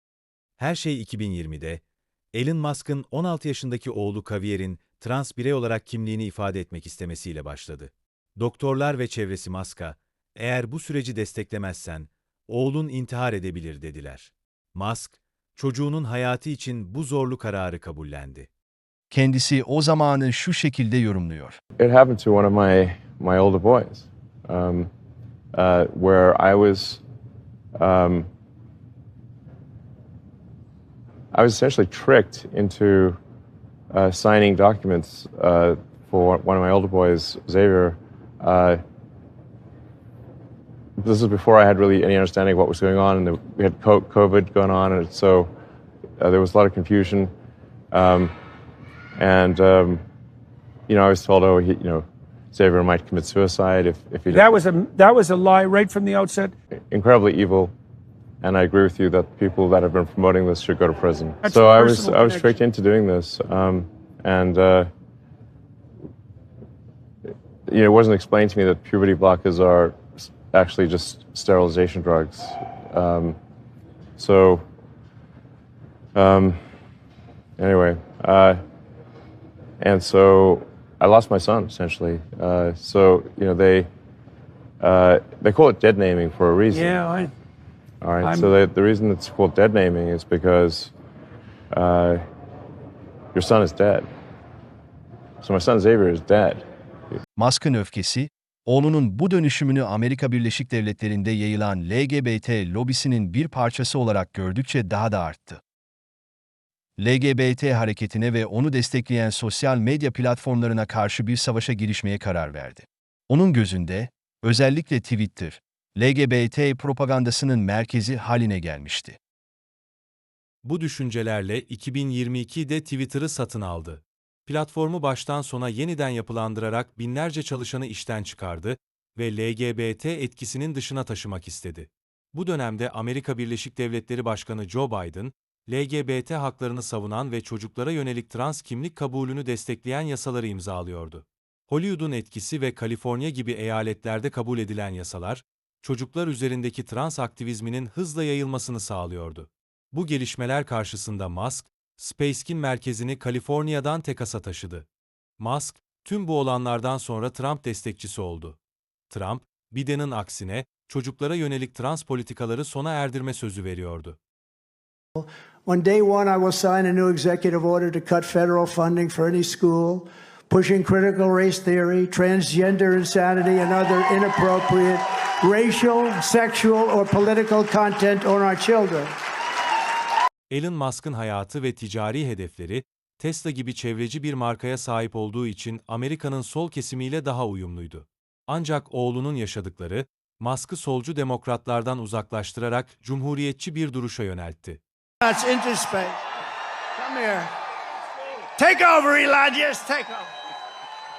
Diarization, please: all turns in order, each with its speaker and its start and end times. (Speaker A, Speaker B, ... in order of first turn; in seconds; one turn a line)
Speaker A: 0.6-1.8
Speaker A: 2.3-18.5
Speaker B: 19.1-21.6
Speaker C: 21.8-24.9
Speaker C: 25.5-27.0
Speaker C: 27.8-28.3
Speaker C: 31.3-33.2
Speaker C: 33.9-38.8
Speaker C: 41.0-45.5
Speaker C: 46.2-47.3
Speaker C: 47.9-48.3
Speaker C: 49.2-50.0
Speaker C: 50.9-54.4
Speaker D: 54.3-56.5
Speaker C: 56.9-57.7
Speaker C: 58.4-64.9
Speaker D: 61.4-62.5
Speaker C: 67.7-73.4
Speaker C: 74.2-74.6
Speaker C: 76.1-76.6
Speaker C: 77.6-78.6
Speaker C: 79.8-83.9
Speaker C: 84.8-87.0
Speaker D: 86.7-87.3
Speaker C: 88.0-90.9
Speaker D: 88.2-88.5
Speaker C: 91.7-92.2
Speaker C: 93.3-94.0
Speaker C: 95.4-96.6
Speaker B: 97.4-105.6
Speaker B: 107.0-119.2
Speaker A: 120.6-154.8
Speaker A: 155.4-158.6
Speaker A: 159.1-164.2
Speaker E: 165.2-179.1
Speaker A: 180.5-194.8
Speaker E: 195.2-196.2
Speaker E: 196.9-197.5
Speaker E: 198.6-200.3